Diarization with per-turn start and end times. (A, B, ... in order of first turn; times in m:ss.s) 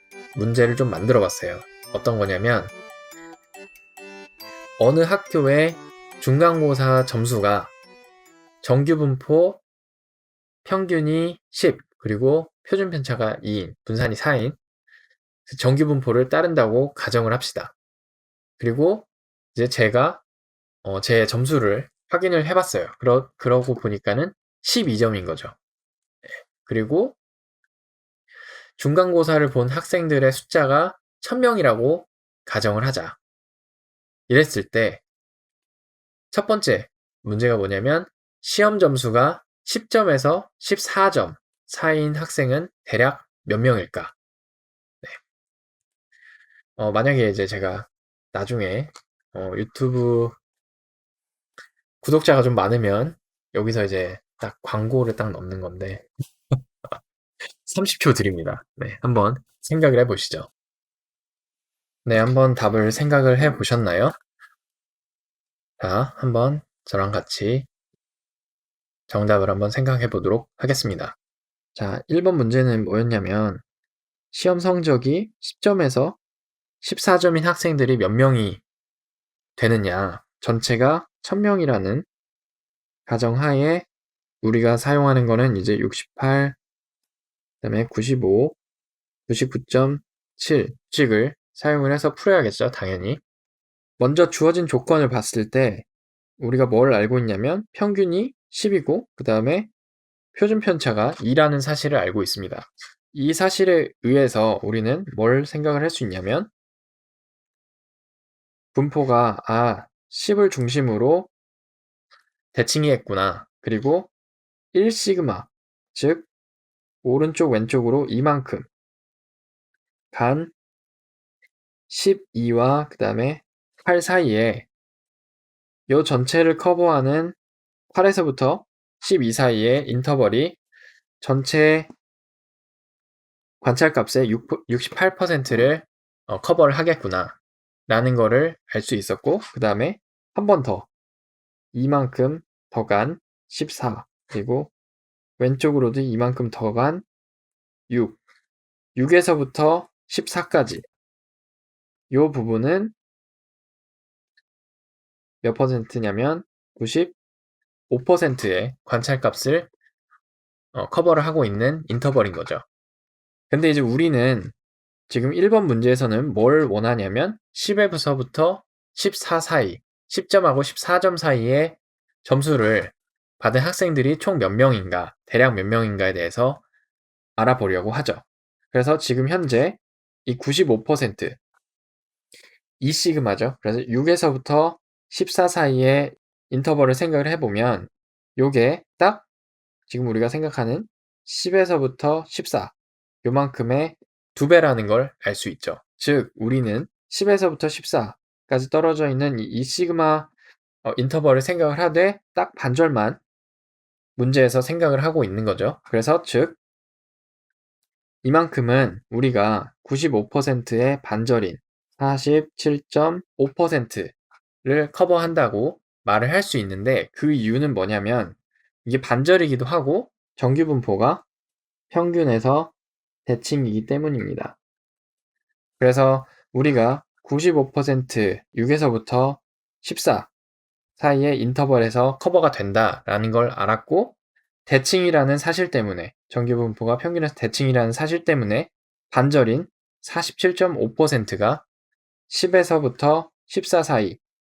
0:00.4-0:02.7 A
0:04.8-0:07.7 A
0:08.6-0:09.6 A
0:10.6-0:14.6 A
0:15.5-0:17.7 A
0:18.6-0:20.2 A
0:20.8-0:25.6 A
0:26.6-0:27.2 A
0:28.8-0:33.2 A
0:34.3-0:35.0 A
0:36.3-0:44.1 A
0:46.8-0:50.4 A
0:52.0-0:56.1 A
0:56.9-1:00.5 A
1:02.1-1:04.1 A
1:05.8-1:07.7 A
1:09.1-1:11.2 A
1:11.8-1:13.6 A
1:14.3-1:16.2 A
1:16.8-1:18.6 A
1:19.6-1:22.1 A
1:23.1-1:23.9 A
1:24.4-1:26.6 A
1:27.6-1:28.6 A
1:29.3-1:33.2 A
1:34.0-1:35.8 A
1:36.4-1:39.7 A
1:40.3-1:46.5 A
1:48.7-1:51.3 A
1:52.5-1:54.1 A
1:54.7-1:56.3 A
1:57.0-1:58.7 A
2:00.1-2:00.5 A
2:01.9-2:04.7 A
2:05.9-2:07.4 A
2:07.9-2:10.6 A
2:11.2-2:11.9 A
2:13.6-2:20.9 A
2:21.7-2:24.7 A
2:25.4-2:27.0 A
2:27.9-2:28.2 A
2:29.0-2:30.8 A
2:32.1-2:32.9 A
2:35.4-2:37.2 A
2:37.9-2:39.7 A
2:40.7-2:42.6 A
2:43.5-2:44.5 A
2:45.1-2:56.6 A
2:57.4-3:01.4 A
3:02.8-3:09.3 A
3:09.9-3:20.3 A
3:20.8-3:23.2 A
3:24.2-3:26.6 A
3:28.2-3:41.2 A
3:41.9-3:42.7 A
3:43.3-3:44.6 A
3:45.8-3:50.3 A
3:51.0-3:54.2 A
3:54.7-4:01.6 A
4:02.3-4:04.2 A